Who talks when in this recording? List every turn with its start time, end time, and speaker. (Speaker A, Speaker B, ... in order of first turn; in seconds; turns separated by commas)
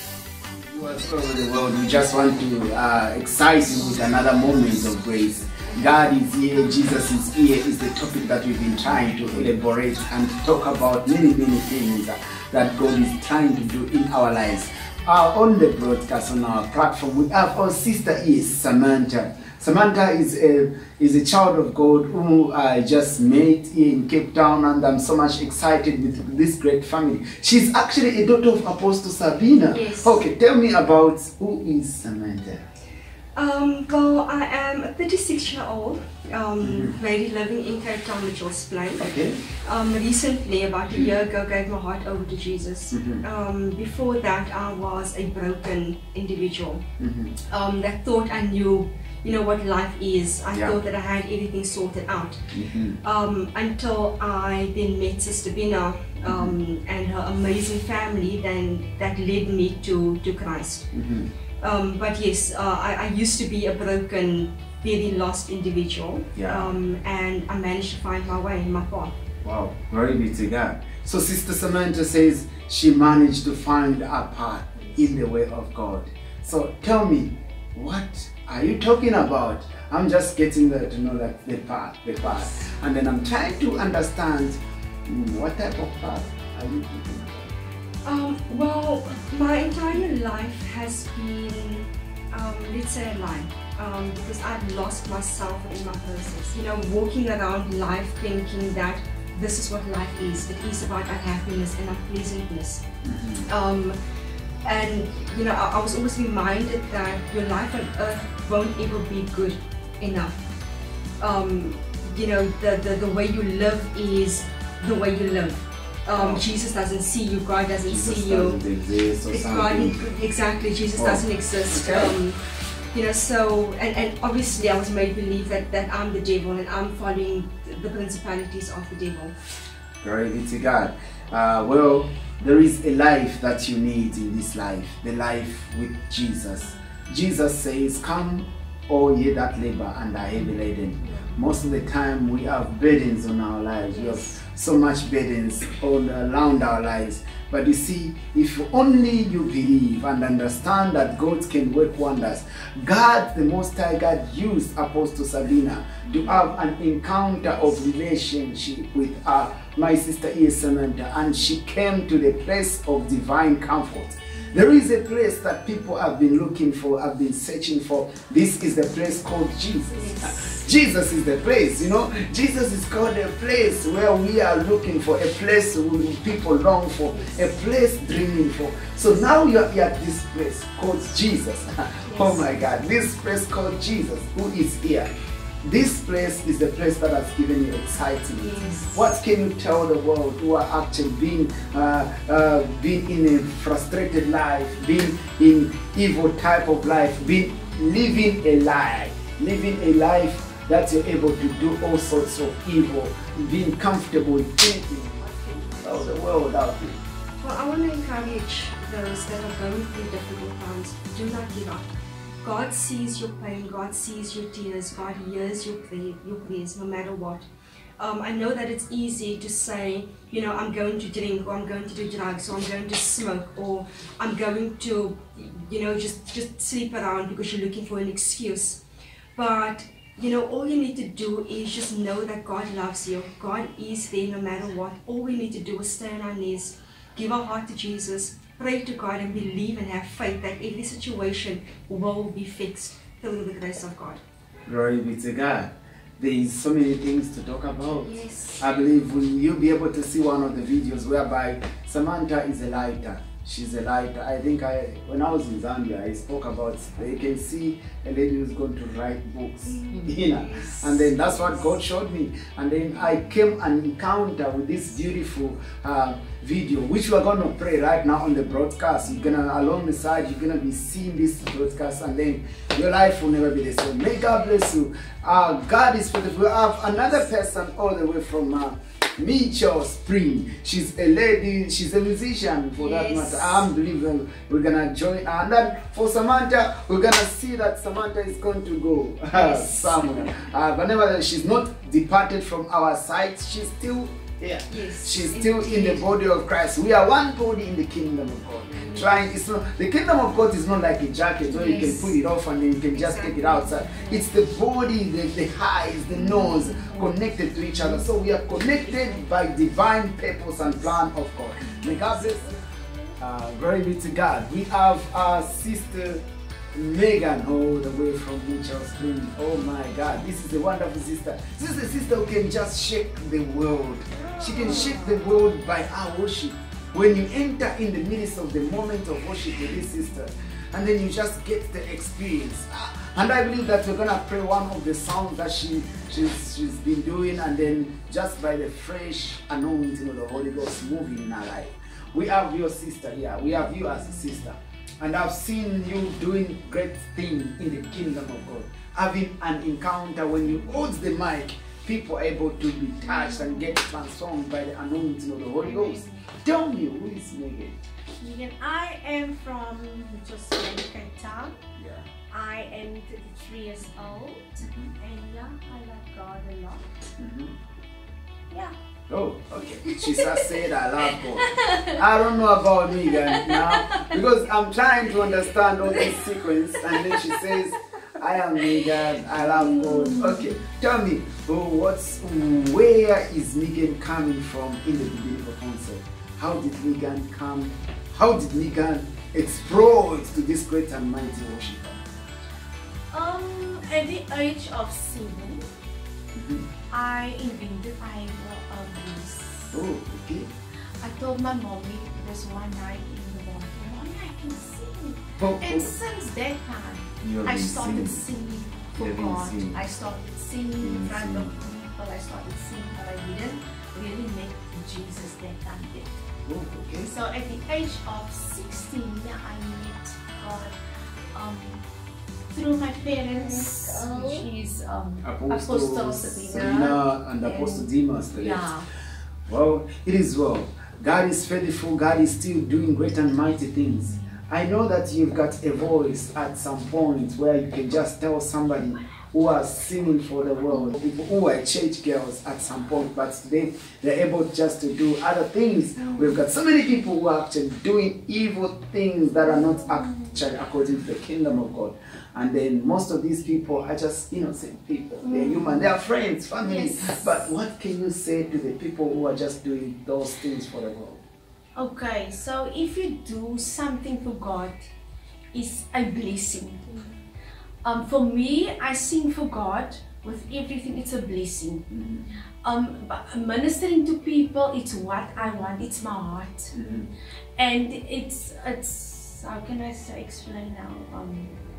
Speaker A: 0.4-32.7, Speaker B: 5.6-6.0, Speaker B: 29.7-30.2, Speaker B: 33.3-39.1, Speaker A: 36.6-37.0, Speaker A: 39.0-39.4, Speaker B: 39.6-46.8, Speaker A: 42.9-43.2, Speaker A: 47.0-47.3, Speaker B: 47.5-52.4, Speaker A: 52.5-53.0, Speaker B: 53.0-60.9, Speaker A: 56.2-56.6, Speaker A: 60.9-61.3, Speaker B: 61.6-69.1, Speaker A: 66.4-66.7, Speaker A: 69.4-87.5, Speaker B: 88.0-102.9, Speaker A: 103.0-103.5, Speaker B: 103.5-104.0, Speaker B: 104.6-110.5, Speaker B: 111.2-118.6, Speaker A: 116.1-116.4, Speaker A: 117.8-120.0, Speaker B: 119.3-122.4, Speaker A: 121.0-122.1, Speaker B: 122.9-129.3, Speaker A: 130.0-185.1, Speaker B: 156.1-156.6, Speaker B: 169.9-170.6, Speaker B: 177.1-177.5, Speaker B: 182.1-182.5, Speaker A: 185.6-205.2, Speaker B: 188.3-189.1, Speaker C: 205.2-206.1, Speaker A: 205.8-207.0, Speaker B: 207.4-217.5, Speaker B: 218.0-228.8, Speaker B: 229.3-244.2, Speaker A: 244.7-312.6, Speaker B: 247.9-248.7, Speaker B: 259.6-261.7, Speaker B: 282.8-283.7, Speaker B: 289.3-290.4, Speaker B: 294.7-296.1, Speaker B: 298.7-299.2, Speaker C: 301.5-302.1, Speaker B: 302.9-304.3, Speaker C: 306.1-307.1, Speaker C: 307.8-308.1, Speaker C: 308.7-309.2, Speaker C: 311.6-312.7, Speaker A: 313.2-316.2, Speaker A: 316.8-357.8, Speaker C: 324.1-325.4, Speaker C: 353.0-353.8, Speaker C: 355.6-356.2, Speaker C: 358.2-361.6, Speaker A: 361.8-362.1, Speaker C: 362.3-366.8, Speaker A: 364.6-364.9, Speaker A: 367.2-367.6, Speaker A: 369.1-392.0, Speaker C: 369.7-372.1, Speaker C: 373.1-374.2, Speaker C: 375.1-376.2, Speaker C: 376.8-377.5, Speaker C: 378.7-380.6, Speaker C: 393.1-395.7, Speaker A: 396.4-396.7, Speaker C: 396.9-399.8, Speaker A: 399.7-400.5, Speaker C: 401.0-416.2, Speaker A: 405.4-405.9, Speaker A: 407.2-408.2, Speaker A: 409.0-409.8, Speaker A: 410.8-411.6, Speaker A: 416.5-417.1, Speaker C: 417.0-420.8, Speaker C: 421.3-421.8, Speaker C: 422.5-428.9, Speaker A: 425.2-428.7, Speaker A: 429.5-461.2, Speaker C: 446.0-446.4, Speaker C: 449.4-450.4, Speaker C: 455.2-455.9, Speaker C: 456.6-457.5, Speaker C: 461.8-464.8, Speaker C: 465.5-467.1, Speaker C: 467.8-471.9, Speaker A: 471.9-472.2, Speaker C: 472.6-476.8, Speaker A: 476.7-477.1, Speaker C: 477.6-481.6